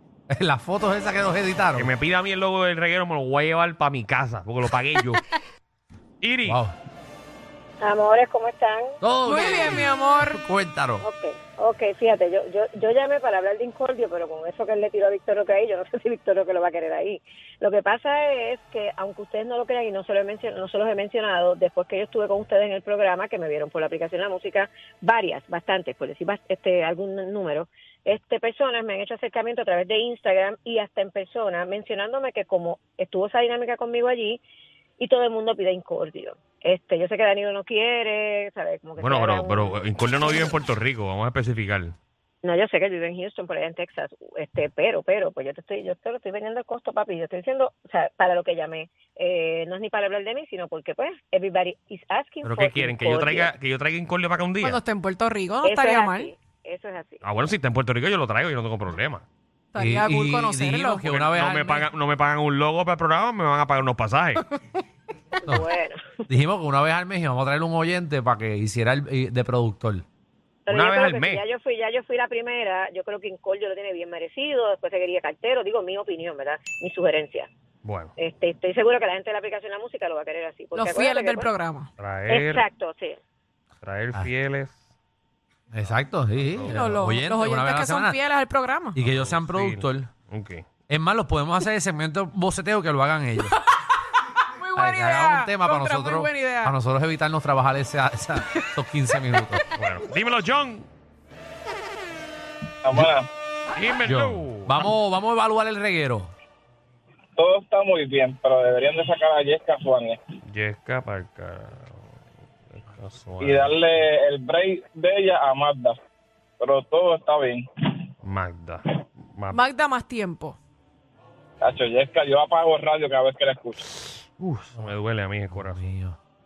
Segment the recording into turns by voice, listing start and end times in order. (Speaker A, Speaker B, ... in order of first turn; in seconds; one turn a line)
Speaker A: 0.3-1.9
Speaker B: 1.8-5.2
Speaker B: 6.2-6.6
Speaker A: 6.5-6.8
Speaker C: 7.8-9.0
Speaker A: 9.0-11.1
Speaker D: 9.2-10.4
Speaker C: 11.0-34.4
Speaker C: 35.0-40.5
Speaker B: 39.0-42.0
Speaker C: 42.4-53.5
Speaker B: 52.4-54.8
Speaker D: 54.6-56.3
Speaker C: 55.6-57.3
Speaker B: 57.2-59.2
Speaker D: 59.7-61.1
Speaker A: 59.8-61.8
Speaker B: 61.0-64.4
Speaker C: 65.4-66.2
Speaker A: 66.3-70.0
Speaker C: 70.7-77.5
Speaker B: 70.7-71.4
Speaker B: 77.8-78.1
Speaker C: 78.2-81.5
Speaker D: 80.7-81.9
Speaker B: 82.0-82.6
Speaker C: 82.3-83.2
Speaker B: 83.8-84.8
Speaker A: 85.7-88.2
Speaker B: 86.4-86.9
Speaker D: 86.7-89.0
Speaker A: 88.9-90.1
Speaker B: 89.0-90.7
Speaker A: 90.9-93.5
Speaker D: 94.6-96.7
Speaker A: 94.8-99.6
Speaker B: 99.8-100.9
Speaker E: 102.9-103.3
Speaker B: 103.7-104.8
Speaker A: 104.0-106.3
Speaker E: 107.4-110.2
Speaker B: 110.5-112.0
Speaker B: 112.7-114.0
Speaker E: 113.4-116.0
Speaker E: 116.6-117.7
Speaker B: 118.2-119.6
Speaker D: 119.5-120.6
Speaker E: 121.6-123.8
Speaker B: 124.4-125.8
Speaker A: 125.5-126.2